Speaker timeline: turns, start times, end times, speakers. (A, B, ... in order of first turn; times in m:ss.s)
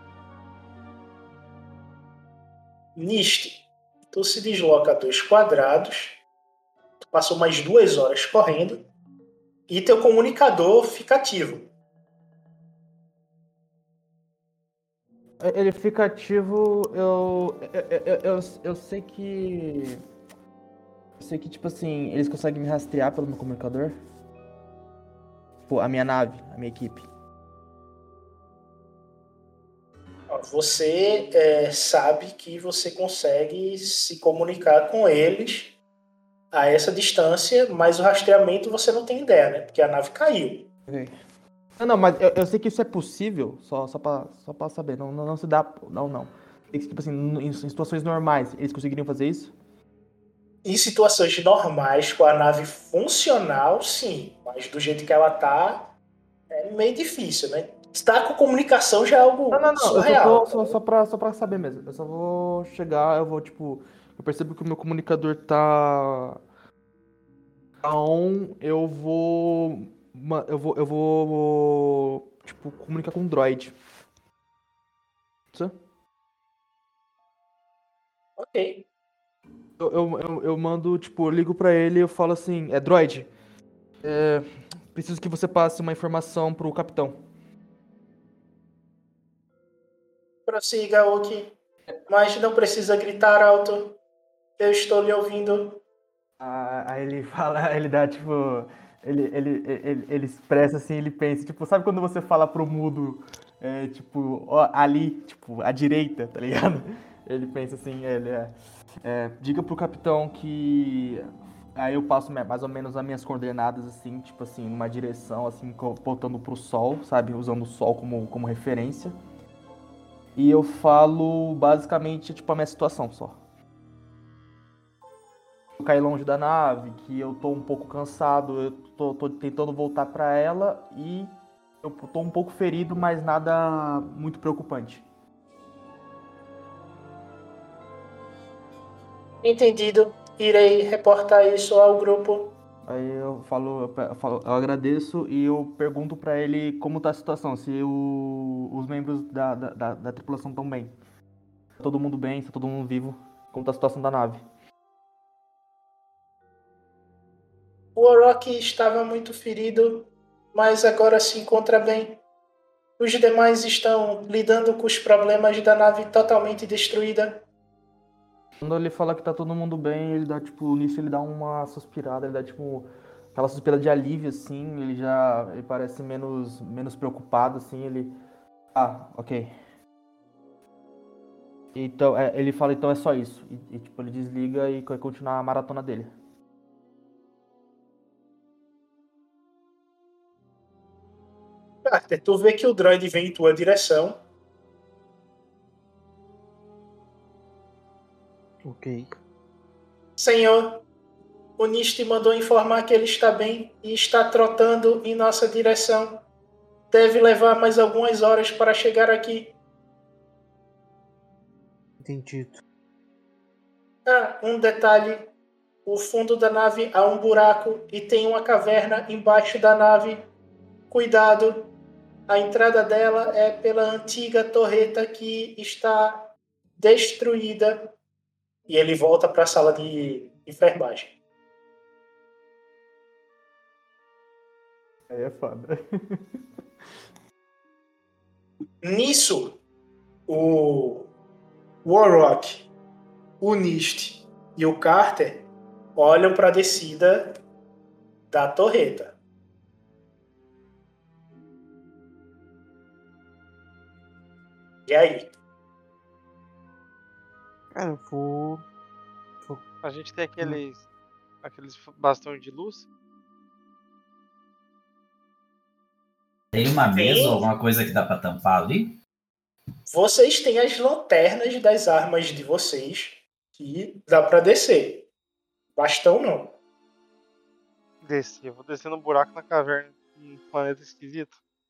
0:03.0-0:06.2 A
0:07.0-0:08.8 A
0:09.7-0:11.7 A
0:15.4-0:20.0 B
0:21.2-0:24.0 B
0:25.6-0:27.0 B
0:30.3-0:35.8 A
0:36.5-0:40.7 A
0:40.9-0:41.1 B
0:41.8-0:49.5 B
0:50.6-0:55.9 A
0:56.5-1:00.8 A
0:59.5-1:06.4 B
1:07.8-1:13.7 B
1:18.4-1:18.8 A
1:19.8-1:23.3 B
1:24.0-1:27.2 B
1:30.5-1:31.5 A
1:32.1-1:34.0 A
1:34.6-1:35.8 A
1:36.4-1:48.5 B
1:49.0-1:59.1 B
2:00.4-2:03.4 B
2:05.8-2:11.3 B
2:11.8-2:15.0 B
2:19.4-2:22.6 A
2:22.9-2:30.9 B
2:31.8-2:34.4 B
2:38.0-2:42.2 A
2:43.0-2:47.4 A
2:48.6-2:58.1 B
2:58.7-2:59.5 B
3:01.7-3:06.1 B
3:11.8-3:14.2 A
3:18.6-3:19.2 C
3:20.2-3:20.8 A
3:21.6-3:26.2 A
3:26.9-3:29.6 A
3:32.0-3:32.6 C
3:34.0-3:35.3 A
3:35.8-3:40.3 A
3:40.9-3:41.7 A
3:42.3-3:48.0 A
3:48.7-3:51.1 A
3:55.1-3:56.2 B
3:58.8-3:59.6 A
4:00.3-4:01.1 A
4:01.8-4:02.7 A
4:03.4-4:07.3 A
4:08.3-4:09.1 A
4:14.9-4:15.3 A
4:17.7-4:18.6 C
4:19.8-4:20.9 D
4:21.4-4:22.9 D
4:26.5-4:29.0 E
4:26.9-4:27.5 A
4:29.9-4:35.1 A
4:35.8-4:36.6 A
4:38.0-4:41.4 D